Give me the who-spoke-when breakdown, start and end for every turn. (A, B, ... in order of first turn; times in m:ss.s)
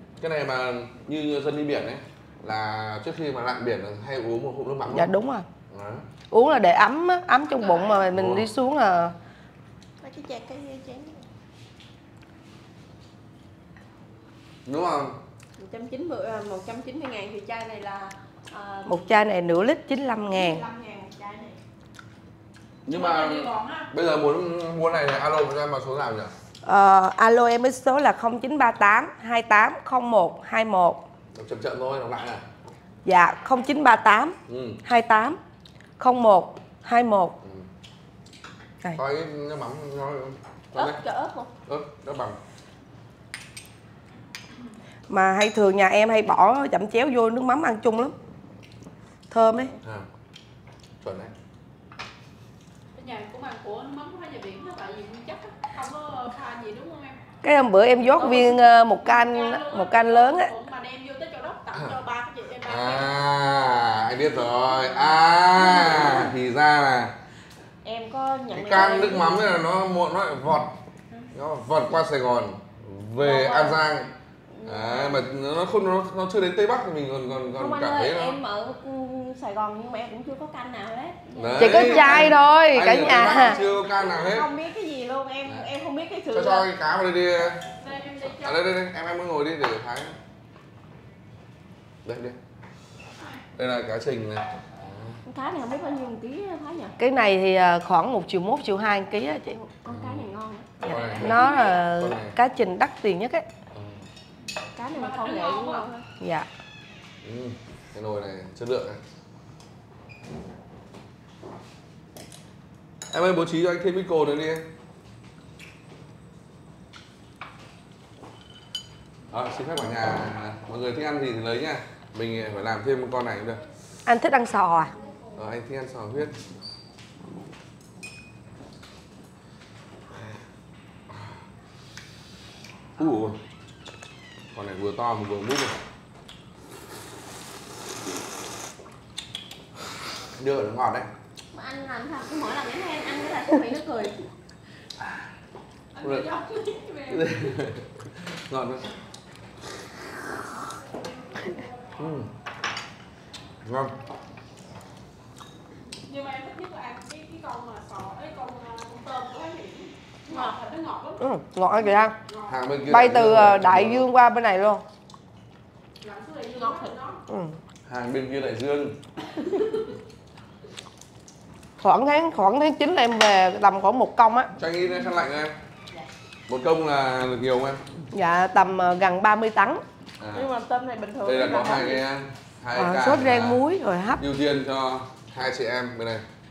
0:00.2-0:05.1 A
0:04.9-0:05.5 B
0:05.7-0:06.0 A
0:06.3-0:09.1 B
0:07.5-0:08.0 C
0:08.1-0:08.5 A
0:10.0-0:11.2 C
0:14.7-0:15.2 A
0:15.6-0:19.0 C
0:18.9-0:20.6 B
0:20.3-0:21.6 C
0:22.9-0:26.3 A
0:22.9-0:23.9 D
0:26.6-0:31.0 B
0:31.3-0:32.4 A
0:33.0-0:35.4 B
0:34.5-0:34.8 A
0:36.0-0:37.4 B
0:37.4-0:37.7 A
0:39.0-0:41.0 A
0:40.7-0:41.5 C
0:41.7-0:42.4 A
0:45.1-0:48.2 B
0:49.3-0:49.7 B
0:51.0-0:51.3 A
0:52.9-0:57.2 D
0:57.4-1:00.5 B
0:58.1-0:58.5 C
0:58.2-1:03.1 D
1:01.7-1:02.0 A
1:02.6-1:07.1 A
1:05.7-1:06.3 C
1:07.8-1:09.6 C
1:08.5-1:10.7 A
1:11.3-1:14.1 A
1:13.2-1:13.8 C
1:14.5-1:15.3 C
1:14.6-1:18.4 A
1:17.6-1:22.4 C
1:21.3-1:24.5 A
1:21.6-1:23.6 B
1:23.0-1:26.7 C
1:26.3-1:27.6 A
1:27.8-1:28.7 D
1:28.4-1:30.2 A
1:32.0-1:32.4 A
1:33.6-1:35.2 A
1:35.2-1:37.0 C
1:37.0-1:39.6 B
1:39.5-1:41.8 C
1:39.9-1:40.3 A
1:40.8-1:43.5 B
1:40.8-1:42.4 A
1:43.7-1:44.1 A
1:44.7-1:46.0 C
1:44.9-1:45.9 D
1:46.2-1:46.5 B
1:47.2-1:49.0 A
1:53.1-1:54.7 A
1:59.3-2:03.6 A
2:04.1-2:04.9 B
2:05.3-2:06.4 A
2:10.1-2:10.4 A
2:13.0-2:13.4 A
2:14.5-2:15.8 A
2:20.4-2:21.1 A
2:21.5-2:24.2 C
2:25.9-2:27.5 D
2:26.0-2:26.3 A
2:27.1-2:28.9 A
2:31.3-2:31.9 D
2:32.0-2:32.3 A
2:33.6-2:34.0 A
2:36.0-2:41.2 D
2:40.3-2:40.5 C
2:41.2-2:42.2 B
2:42.3-2:42.6 D
2:42.5-2:44.1 A
2:42.9-2:44.8 B
2:46.0-2:47.2 D
2:46.6-2:47.0 C
2:47.3-2:47.6 B
2:47.9-2:49.0 A
2:49.5-2:49.9 D
2:51.8-2:54.5 B
2:54.6-2:55.6 A
2:56.5-2:57.8 A
2:58.1-2:59.8 B
3:00.2-3:00.5 A
3:00.3-3:02.0 C
3:01.2-3:03.6 A
3:02.8-3:04.2 B
3:04.2-3:06.2 A